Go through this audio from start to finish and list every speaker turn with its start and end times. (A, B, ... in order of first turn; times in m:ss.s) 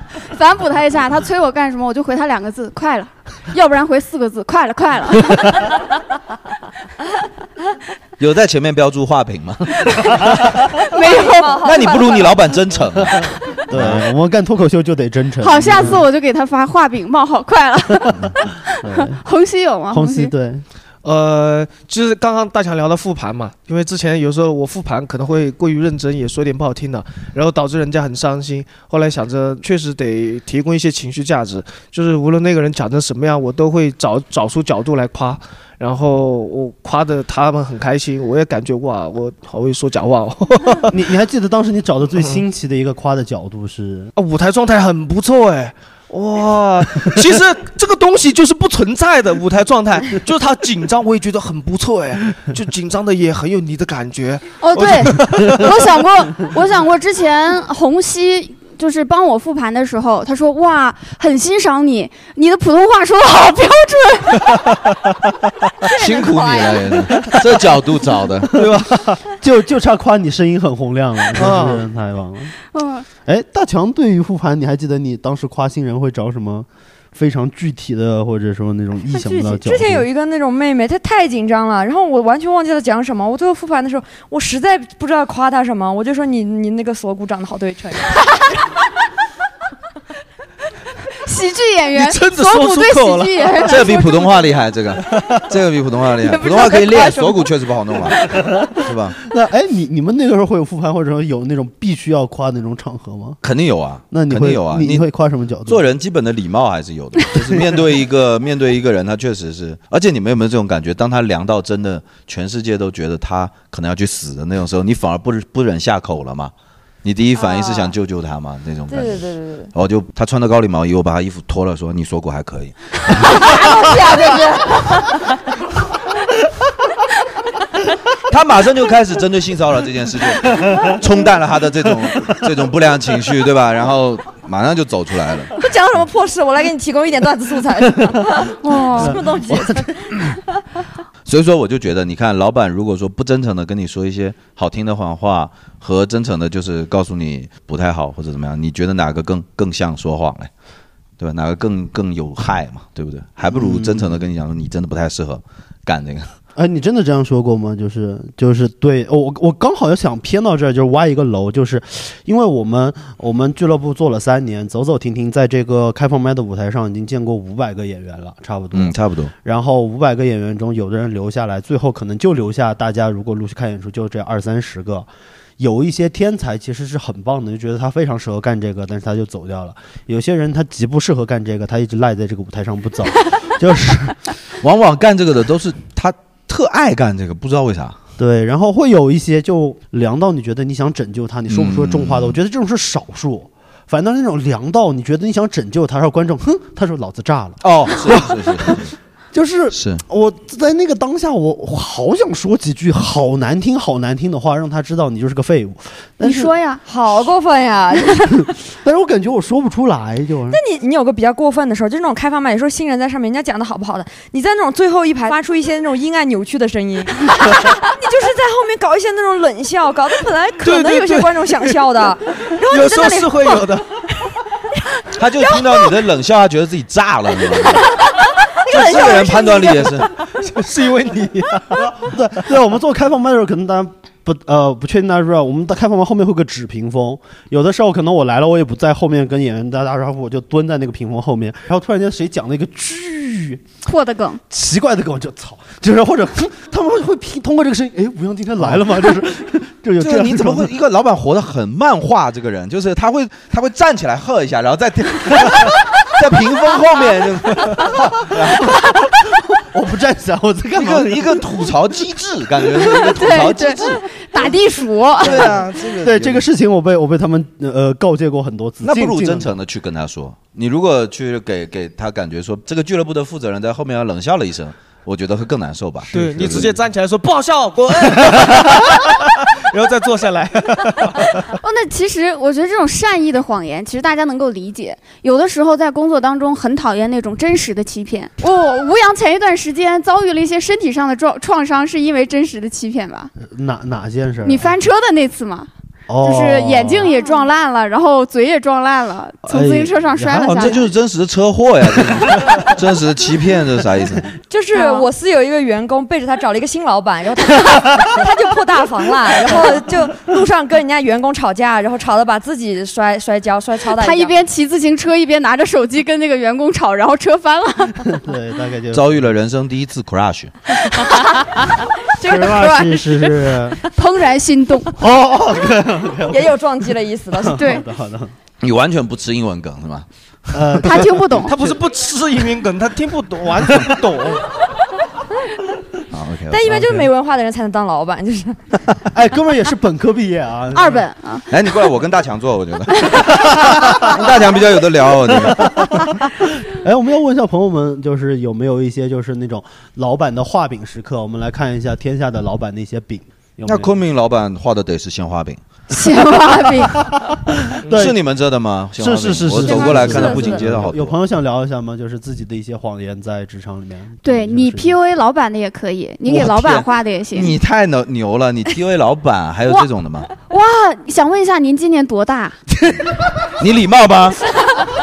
0:00.2-0:05.7 A
0:08.2-0:10.4 B
0:09.9-0:10.2 A
0:10.8-0:11.6 A
0:10.9-0:12.4 C
0:11.6-0:14.1 B
0:13.7-0:16.0 D
0:15.4-0:20.3 A
0:18.8-0:19.2 D
0:19.9-0:20.6 D
0:21.0-0:40.9 E
0:40.9-0:44.1 D
0:44.2-0:55.7 E
0:54.6-1:05.0 A
1:05.8-1:06.8 C
1:05.9-1:08.5 B
1:08.5-1:08.9 E
1:08.5-1:12.5 D
1:11.3-1:11.8 E
1:12.7-1:13.1 A
1:13.2-1:20.0 D
1:19.1-1:28.2 C
1:31.2-1:34.3 A
1:31.9-1:34.0 E
1:33.6-1:39.2 B
1:36.3-1:37.4 C
1:39.2-1:43.4 D
1:43.4-1:45.0 B
1:44.1-1:45.8 D
1:45.6-1:56.5 B
1:57.0-1:59.2 B
1:57.4-1:57.9 C
1:58.9-1:59.7 C
1:59.7-2:03.7 B
2:03.2-2:05.1 C
2:08.3-2:15.5 B
2:15.6-2:20.4 C
2:18.6-2:19.2 A
2:19.0-2:19.9 D
2:21.2-2:30.5 B
2:31.2-2:36.3 B
2:33.5-2:34.2 D
2:36.6-2:55.1 D
2:48.7-2:49.3 B
2:55.6-3:04.2 D
3:04.6-3:08.0 B
3:08.2-3:18.7 D
3:11.5-3:12.4 B
3:17.6-3:18.9 B
3:19.3-3:26.5 D
3:19.7-3:20.0 B
3:26.2-3:26.8 A
3:26.8-3:28.3 C
3:28.7-3:30.6 D
3:30.5-3:43.6 C
3:40.6-3:41.8 E
3:42.6-3:43.8 E
3:45.2-3:47.9 B
3:48.6-3:49.9 C
3:48.7-3:50.1 B
3:50.4-3:51.7 E
3:51.8-4:03.6 D
4:03.8-4:04.4 A
4:04.5-4:10.7 D
4:10.0-4:18.8 B
4:17.6-4:18.0 D
4:18.5-4:18.9 D
4:19.6-4:21.4 D
4:20.8-4:24.2 B
4:22.8-4:25.6 A
4:25.2-4:26.4 B
4:26.0-4:29.5 D
4:28.8-4:36.7 B
4:36.1-4:41.4 E
4:36.1-4:36.6 D
4:41.6-4:53.3 A
4:53.4-4:54.7 D
4:54.4-4:55.7 A
4:56.1-4:57.1 D
4:56.2-5:00.8 A
4:59.4-5:00.8 D
5:00.6-5:04.3 B
5:04.5-5:14.3 C
5:04.7-5:05.1 A
5:13.9-5:18.2 A
5:18.1-5:19.3 D
5:18.9-5:20.5 B
5:20.8-5:21.4 A
5:22.2-5:23.0 A
5:22.2-5:23.8 D
5:23.8-5:24.9 A
5:25.0-5:26.6 D
5:26.3-5:27.7 C
5:27.3-5:28.3 D
5:27.5-5:27.8 A
5:28.6-5:30.0 B
5:30.5-5:31.8 D
5:30.8-5:31.5 A
5:31.4-5:34.5 E
5:36.1-5:36.7 B
5:36.5-5:38.6 C
5:36.6-5:37.1 D
5:39.1-5:41.0 D
5:40.7-5:41.4 A
5:41.5-5:45.7 B
5:45.3-5:53.9 D
5:53.6-5:55.6 B
5:55.9-5:57.0 A
5:57.0-5:58.2 D
5:57.9-6:01.1 B
5:59.0-6:05.0 D
5:59.6-6:00.6 C
6:04.2-6:07.6 A
6:06.3-6:10.3 B
6:09.7-6:12.6 A
6:13.6-6:14.4 B